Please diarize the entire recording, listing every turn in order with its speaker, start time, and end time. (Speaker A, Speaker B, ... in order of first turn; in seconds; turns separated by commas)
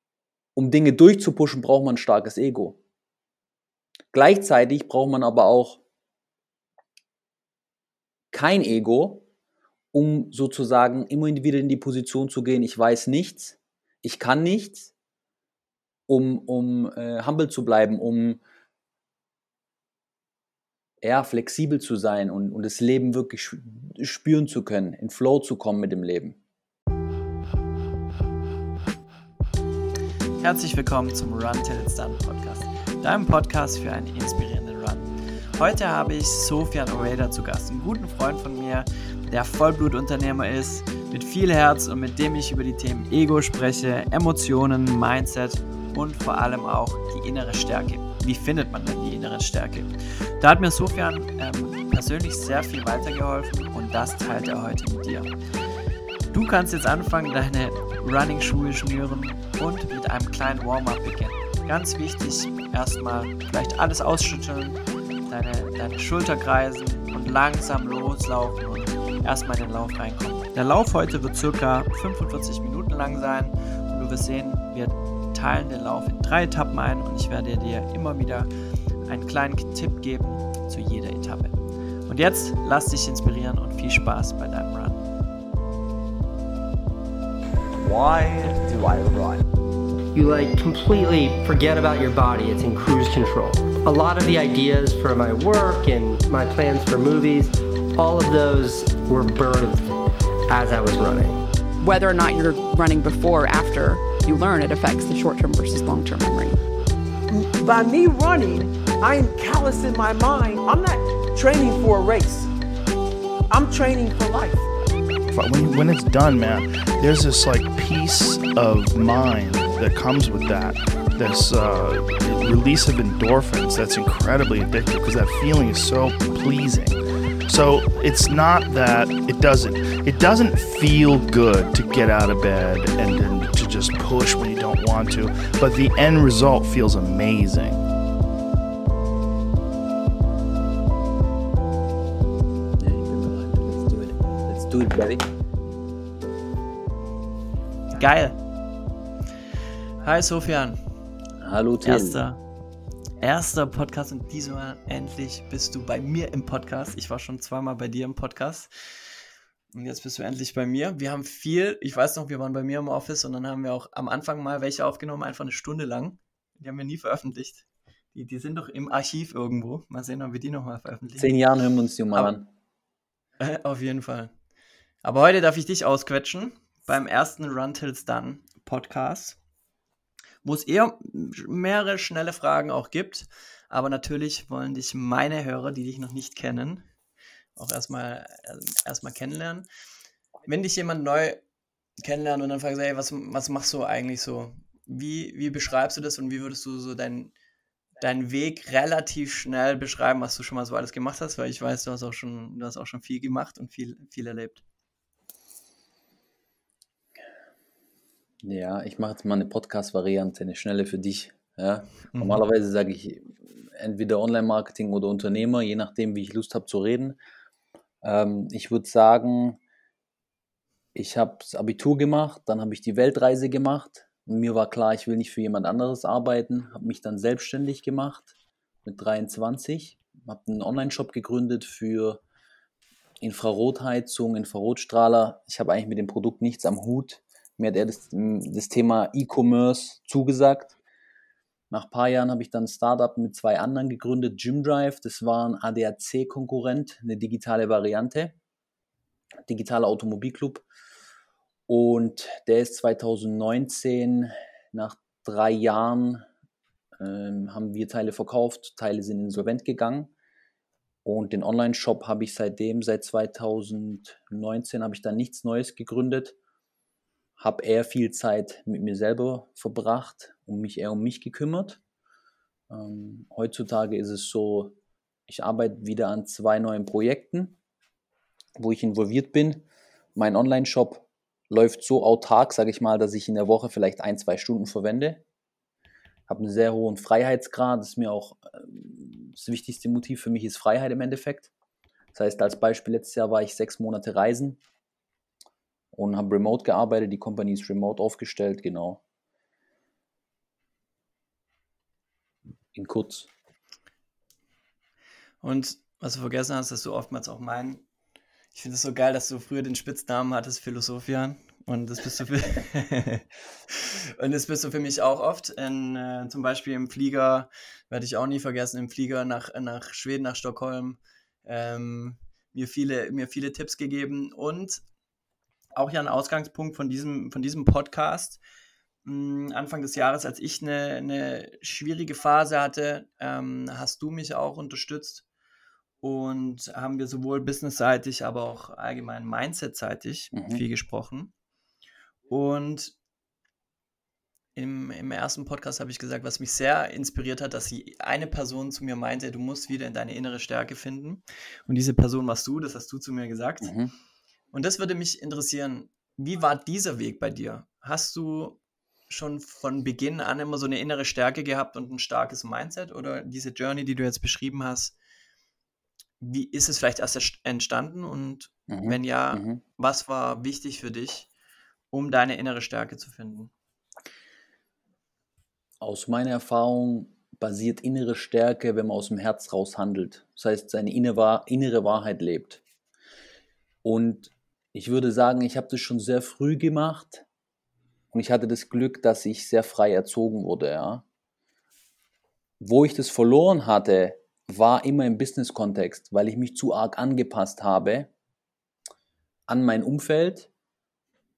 Speaker A: 0.6-2.8, Speaker A: 4.1-5.8, Speaker A: 8.3-9.2, Speaker A: 9.9-14.9, Speaker A: 16.1-18.4, Speaker A: 21.0-26.4, Speaker B: 30.4-55.3, Speaker B: 56.3-64.8, Speaker B: 65.3-78.5, Speaker B: 79.0-85.0, Speaker C: 87.8-89.4, Speaker D: 90.1-99.9, Speaker D: 100.5-101.4, Speaker E: 101.8-106.6, Speaker F: 107.3-112.5, Speaker F: 113.5-114.7, Speaker C: 115.3-137.9, Speaker A: 142.8-145.2, Speaker B: 147.9-148.4, Speaker B: 150.0-150.8, Speaker A: 151.4-152.2, Speaker B: 151.8-152.4, Speaker B: 153.2-159.1, Speaker B: 159.7-171.3, Speaker A: 171.2-172.5, Speaker B: 173.4-174.3, Speaker B: 175.0-179.4, Speaker B: 180.4-186.8, Speaker B: 187.6-189.7, Speaker B: 190.5-191.4, Speaker B: 192.0-197.3, Speaker B: 198.0-204.6, Speaker A: 208.4-217.2, Speaker B: 212.1-212.4, Speaker A: 218.0-219.6, Speaker A: 220.9-228.3, Speaker A: 228.8-232.2, Speaker A: 233.2-240.8, Speaker A: 241.7-248.3, Speaker A: 249.5-250.7, Speaker A: 251.7-256.2, Speaker A: 257.0-260.1, Speaker A: 261.1-266.4, Speaker A: 267.4-271.8, Speaker A: 272.7-274.8, Speaker A: 275.3-277.6, Speaker A: 278.6-279.6, Speaker A: 280.2-285.2, Speaker A: 286.3-291.5, Speaker A: 292.1-294.6, Speaker A: 295.9-299.0, Speaker A: 302.7-303.3, Speaker B: 305.4-307.8, Speaker B: 308.5-324.8, Speaker B: 325.8-328.4, Speaker B: 329.1-335.2, Speaker B: 336.0-341.3, Speaker A: 340.3-340.6, Speaker B: 342.3-342.9, Speaker B: 344.6-353.7, Speaker A: 353.6-353.9, Speaker B: 354.5-358.6, Speaker B: 359.1-364.9, Speaker B: 366.2-371.3, Speaker A: 368.7-369.6, Speaker B: 371.9-373.5, Speaker A: 375.8-382.6, Speaker A: 383.8-387.2, Speaker A: 388.1-391.0, Speaker A: 392.6-398.1, Speaker A: 399.5-400.5